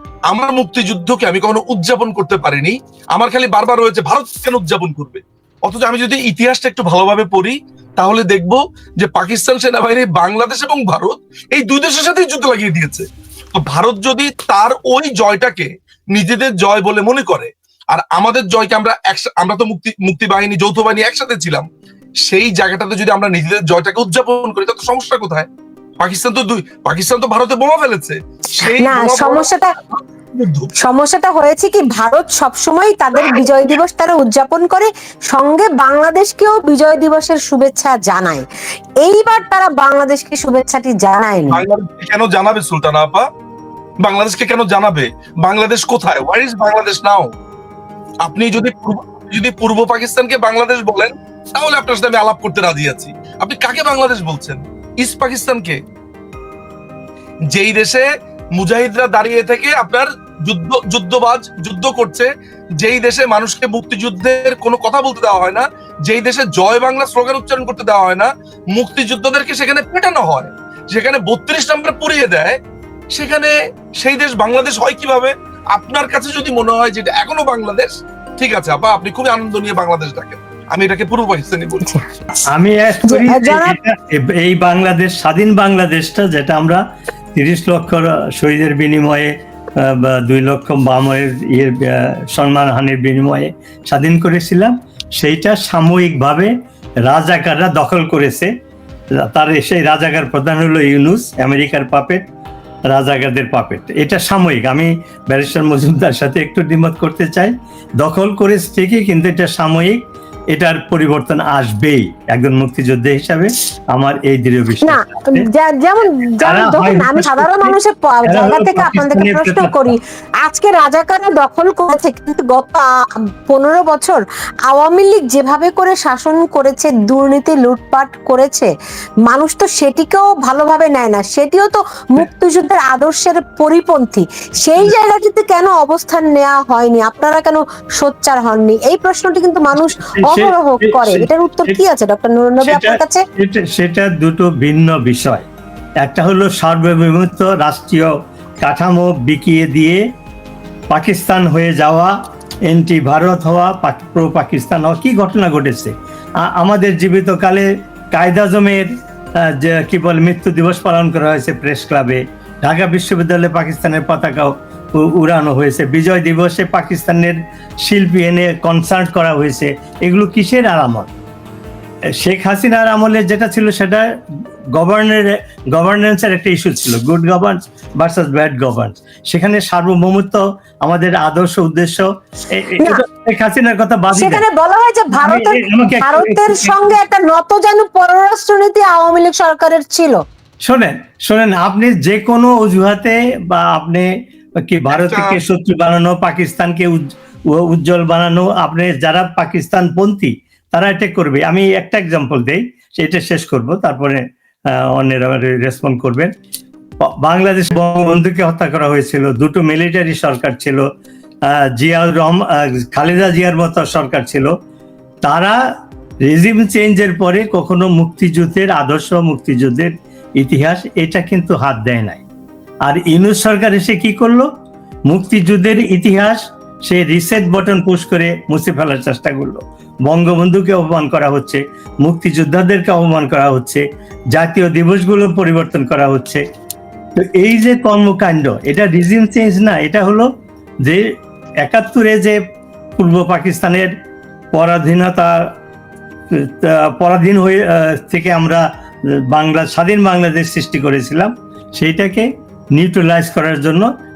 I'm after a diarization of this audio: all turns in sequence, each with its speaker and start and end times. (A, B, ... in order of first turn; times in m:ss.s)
0:00.3-0:21.6 A
0:22.3-0:25.5 A
0:26.0-0:30.7 A
0:28.6-0:29.7 B
0:30.8-0:38.4 B
0:39.0-0:41.6 B
0:41.5-0:43.2 A
0:44.0-0:47.3 A
0:48.2-0:55.8 A
0:57.5-0:58.0 A
0:58.6-1:02.3 A
1:02.8-1:12.6 A
1:13.1-1:21.9 A
1:22.5-1:26.8 C
1:23.1-1:23.8 B
1:27.3-1:36.5 C
1:37.0-1:38.5 C
1:39.2-1:42.2 C
1:42.9-1:50.0 C
1:50.5-1:55.5 C
1:54.8-2:08.7 B
1:56.4-1:59.9 C
2:09.2-2:23.2 B
2:19.8-2:21.8 C
2:22.6-2:25.4 C
2:26.0-2:28.1 C
2:28.6-2:30.0 C
2:30.9-2:32.1 C
2:32.7-2:35.9 C
2:36.5-2:38.9 C
2:39.4-2:51.1 C
2:52.2-2:54.0 C
2:54.8-3:04.4 C
3:04.1-3:10.2 B
3:05.1-3:07.0 C
3:10.6-3:14.1 C
3:14.6-3:17.0 C
3:14.9-3:15.4 A
3:17.5-3:24.2 C
3:24.9-3:26.3 C
3:27.2-3:30.8 C
3:31.8-3:34.5 C
3:35.2-3:35.6 C
3:36.2-3:42.2 C
3:42.8-3:44.5 C
3:45.1-3:53.8 C
3:54.3-3:56.4 C
3:57.2-4:00.3 C
4:01.6-4:02.4 C
4:03.0-4:03.9 C
4:04.5-4:05.3 C
4:06.6-4:08.6 C
4:09.3-4:13.9 C